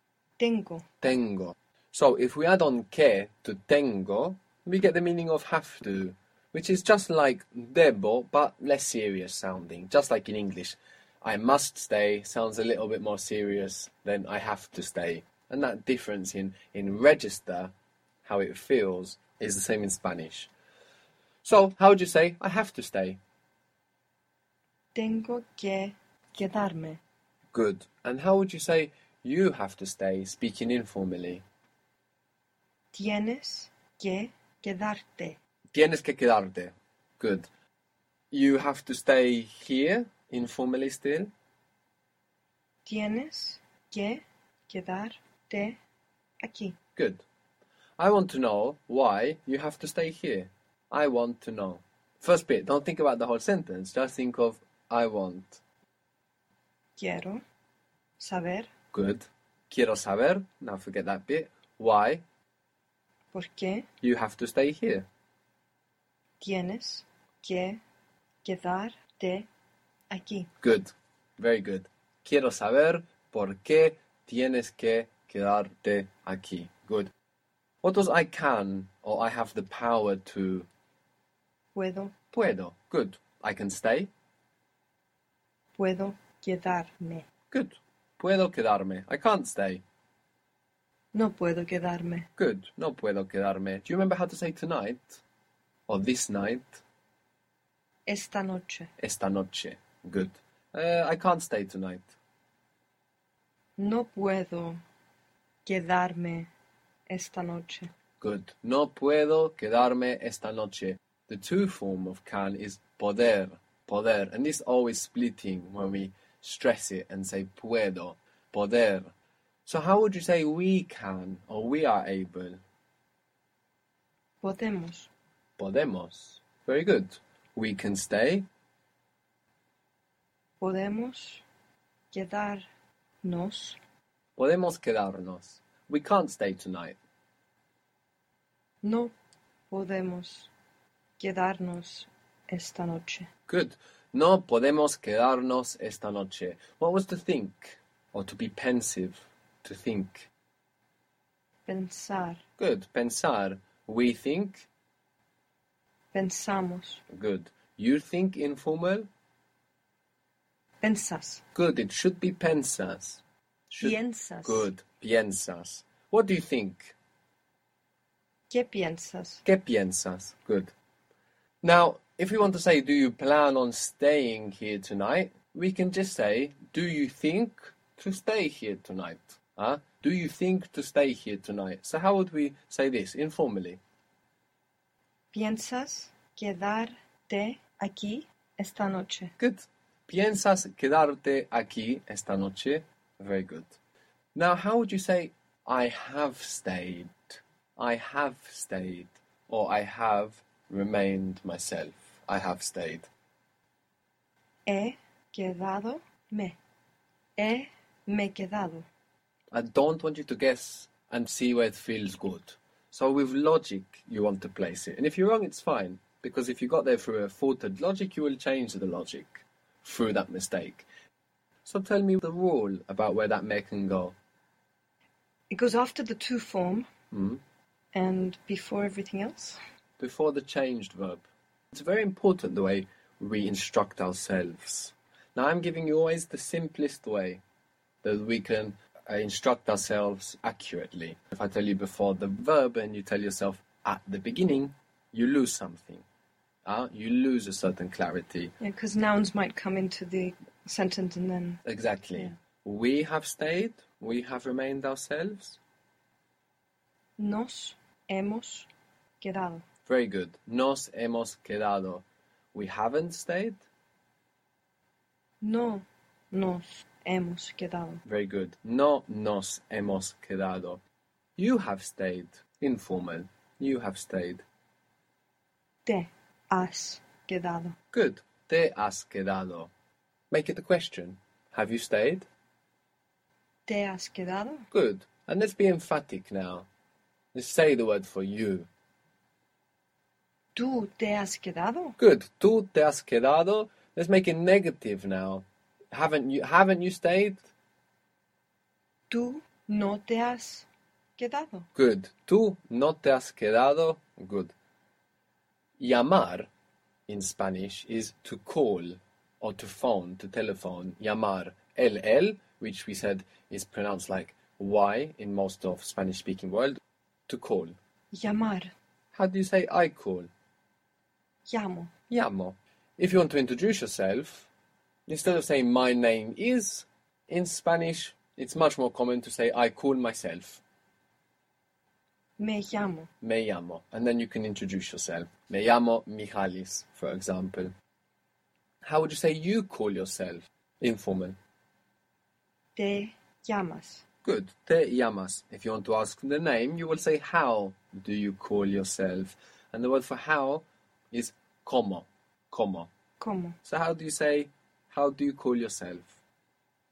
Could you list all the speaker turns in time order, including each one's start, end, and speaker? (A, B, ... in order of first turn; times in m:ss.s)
0:00.4-0:00.9 A
0:01.0-0:17.7 B
0:18.2-0:20.5 B
0:21.4-0:23.2 B
0:25.0-0:27.0 A
0:27.5-0:31.4 B
0:32.9-0:35.4 A
0:35.7-0:37.5 B
0:38.3-0:41.3 B
0:42.9-0:45.8 A
0:46.4-0:46.8 A
0:47.0-0:47.2 B
0:48.0-0:55.6 B
0:57.0-0:57.4 A
0:58.2-0:58.7 A
0:58.9-1:02.2 B
1:03.3-1:03.9 A
1:04.0-1:05.1 B
1:06.4-1:07.8 A
1:08.4-1:09.5 A
1:10.1-1:10.5 A
1:10.6-1:17.1 B
1:17.8-1:20.7 B
1:21.8-1:22.2 A
1:22.3-1:24.1 B
1:25.8-1:27.3 A
1:27.5-1:29.8 B
1:31.1-1:32.3 A
1:32.4-1:35.2 B
1:35.9-1:36.8 B
1:38.1-1:38.9 A
1:39.0-1:42.2 B
1:43.8-1:44.8 A
1:45.7-1:46.5 A
1:47.1-1:47.9 A
1:48.2-1:59.1 B
1:59.7-2:02.6 B
2:04.4-2:05.1 A
2:05.6-2:08.5 B
2:10.6-2:11.4 A
2:12.1-2:12.7 A
2:13.2-2:13.8 A
2:14.4-2:17.0 B
2:18.8-2:19.1 A
2:19.7-2:20.5 A
2:21.2-2:23.3 A
2:23.5-2:30.3 B
2:31.7-2:32.4 A
2:32.6-2:34.7 B
2:36.1-2:37.0 A
2:37.1-2:39.1 B
2:40.8-2:41.4 A
2:41.6-2:47.0 B
2:43.8-2:44.7 A
2:48.5-2:49.4 A
2:49.4-2:50.7 B
2:51.6-3:03.8 B
3:05.3-3:09.4 A
3:09.4-3:13.8 B
3:14.4-3:23.1 B
3:24.7-3:26.6 A
3:27.4-3:28.9 A
3:29.5-3:40.9 B
3:41.6-3:44.2 B
3:45.5-3:46.9 A
3:47.1-3:47.4 B
3:47.9-3:49.6 A
3:50.0-3:57.4 B
3:58.0-4:06.0 B
4:06.6-4:08.6 B
4:08.6-4:11.6 A
4:11.6-4:15.6 B
4:17.2-4:18.7 A
4:19.2-4:19.6 A
4:19.9-4:23.7 B
4:25.4-4:28.0 A
4:28.1-4:30.8 B
4:31.4-4:34.4 B
4:35.9-4:37.8 A
4:37.9-4:39.7 B
4:40.3-4:42.3 B
4:43.7-4:44.7 A
4:44.7-4:46.7 B
4:47.3-4:48.7 B
4:50.6-4:52.0 A
4:52.0-4:57.5 B
4:59.1-5:01.7 A
5:01.8-5:04.5 B
5:05.8-5:06.5 B
5:07.1-5:17.8 B
5:18.1-5:18.7 A
5:19.1-5:20.3 B
5:21.5-5:21.9 A
5:22.1-5:24.5 B
5:25.1-5:30.6 B
5:32.4-5:33.1 A
5:33.2-5:37.7 B
5:38.8-5:41.4 B
5:42.8-5:44.0 A
5:44.2-5:52.9 B
5:53.2-5:53.6 A
5:53.6-5:56.2 B